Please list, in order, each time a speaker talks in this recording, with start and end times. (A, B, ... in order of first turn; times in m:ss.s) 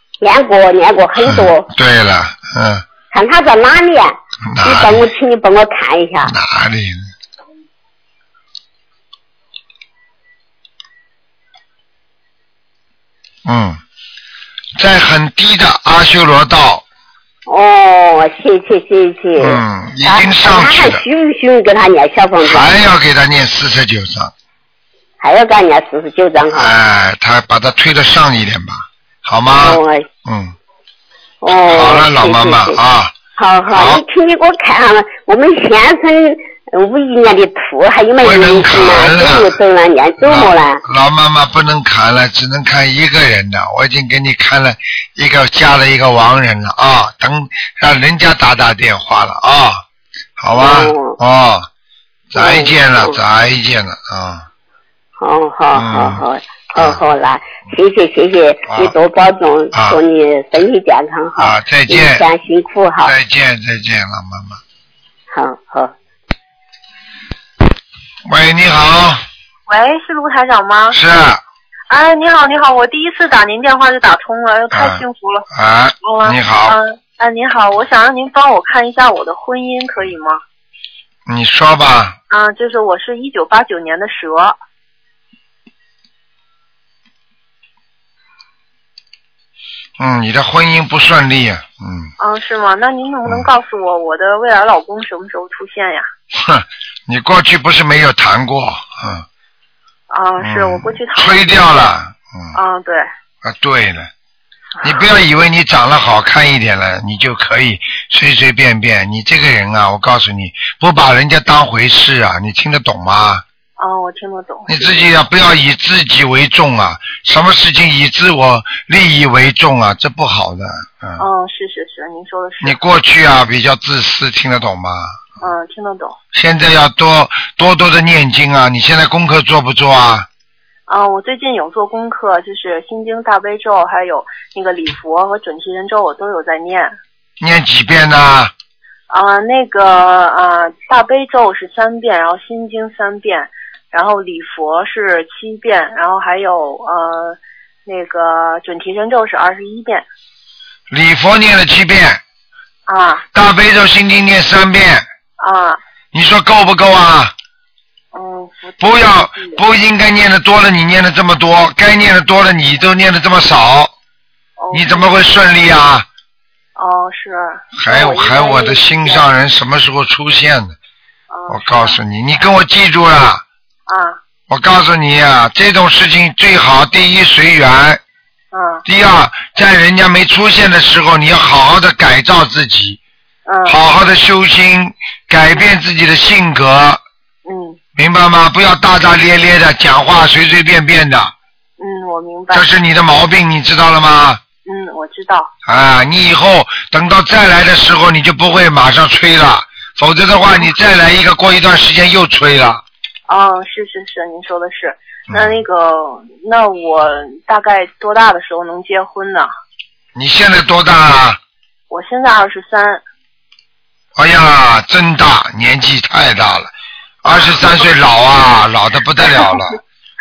0:00.2-0:01.7 A
0:01.2-0:02.8 B
0:03.1-0:06.3 A
0:04.5-0:05.0 B
0:06.2-0:07.1 B
0:13.4-0:13.8 B
0:14.8-0:16.8 B
0:17.5-0:22.7 A
0:19.4-0:21.0 B
0:22.4-0:24.3 B
0:25.2-0:26.8 A
0:26.6-0:30.6 B
0:29.6-0:30.1 A
0:31.4-0:32.8 A
0:31.7-0:33.2 B
0:33.4-0:40.8 A
0:33.7-0:34.0 B
0:38.2-0:39.6 B
0:40.2-0:49.8 B
0:50.4-0:51.7 B
0:50.5-0:51.2 A
0:52.3-0:54.5 B
0:52.4-0:53.2 A
0:55.2-1:03.2 A
0:55.8-0:56.2 B
0:58.7-0:58.9 B
0:59.7-1:00.0 B
1:01.4-1:02.2 B
1:03.0-1:04.6 B
1:05.3-1:05.9 A
1:08.3-1:09.2 B
1:09.7-1:11.0 C
1:10.9-1:11.4 B
1:11.9-1:15.5 C
1:14.7-1:16.8 B
1:16.0-1:20.4 C
1:21.3-1:22.2 B
1:22.3-1:24.6 C
1:30.0-1:32.1 B
1:32.2-1:36.1 C
1:36.3-1:39.2 B
1:40.1-1:41.9 C
1:40.4-1:42.6 B
1:42.5-1:43.1 C
1:43.4-1:44.1 B
1:44.8-1:53.4 B
1:53.8-1:55.1 C
1:54.7-2:01.2 B
2:01.2-2:02.8 C
2:02.6-2:05.2 B
2:05.4-2:06.2 C
2:06.3-2:10.3 B
2:10.9-2:17.0 C
2:17.4-2:18.5 B
2:19.1-2:30.1 C
2:30.9-2:32.2 B
2:32.9-2:33.2 C
2:33.3-2:35.0 B
2:35.4-2:35.8 C
2:36.1-2:37.3 B
2:38.1-2:39.6 C
2:38.8-2:43.9 B
2:44.6-2:45.1 C
2:44.7-2:46.1 B
2:46.8-2:49.2 C
2:47.8-2:50.8 B
2:51.3-2:52.0 C
2:51.5-2:53.4 B
2:53.9-2:54.2 C
2:54.5-2:58.0 B
2:58.5-2:58.8 C
2:58.9-3:03.0 B
3:03.5-3:03.8 C
3:03.7-3:07.0 B
3:07.5-3:07.8 C
3:08.0-3:11.3 B
3:11.8-3:12.7 C
3:12.5-3:14.4 B
3:14.7-3:15.5 C
3:15.7-3:22.8 B
3:23.3-3:29.5 C
3:25.3-3:25.6 B
3:30.2-3:31.4 B
3:31.9-3:33.0 C
3:34.2-3:36.7 B
3:37.2-3:39.8 B
3:37.2-3:37.9 C
3:39.2-3:39.6 C